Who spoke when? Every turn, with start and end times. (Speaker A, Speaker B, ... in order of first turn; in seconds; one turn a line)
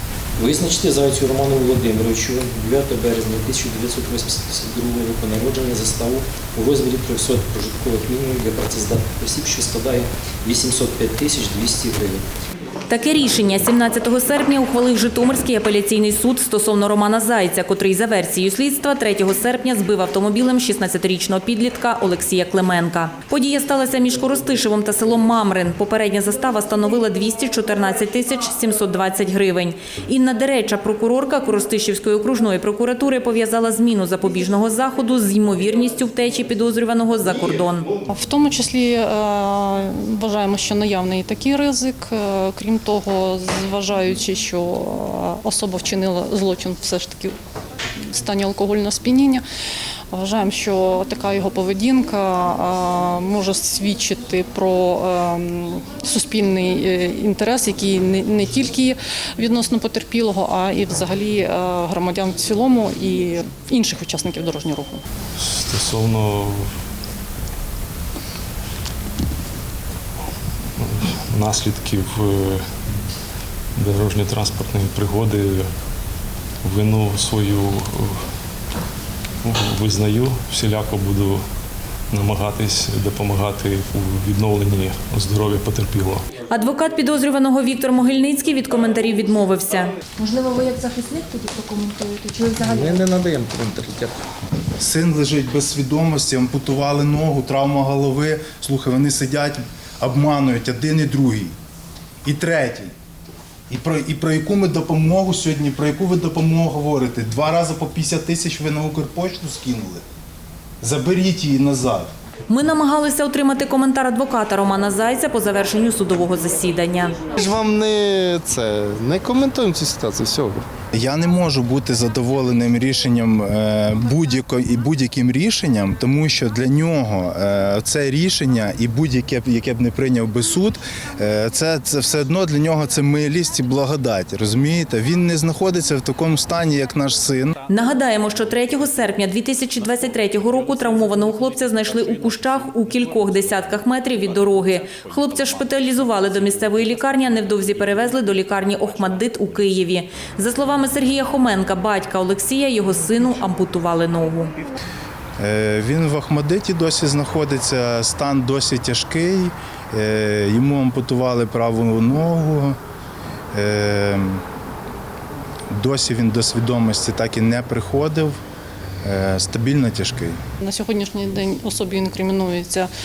Speaker A: 0.3-12.2
Speaker B: 12.9-37.9
Speaker C: 38.1-47.3
Speaker C: 48.0-49.4
Speaker C: 50.1-65.0
Speaker D: 65.3-66.7
Speaker D: 70.8-72.7
Speaker D: 73.7-75.7
Speaker D: 76.6-78.2
Speaker D: 79.4-81.4
Speaker D: 82.1-86.2
Speaker B: 86.5-90.1
Speaker E: 90.2-92.9
Speaker F: 92.5-94.2
Speaker G: 94.8-101.5
Speaker G: 102.2-102.9
Speaker G: 103.7-110.0
Speaker G: 110.8-112.1
Speaker B: 112.5-117.2
Speaker F: 117.3-120.6
Speaker G: 120.9-137.5
Speaker B: 137.7-154.5
Speaker G: 155.4-162.8
Speaker G: 163.5-164.4
Speaker G: 165.7-168.3
Speaker G: 169.0-170.4
Speaker C: 170.6-172.9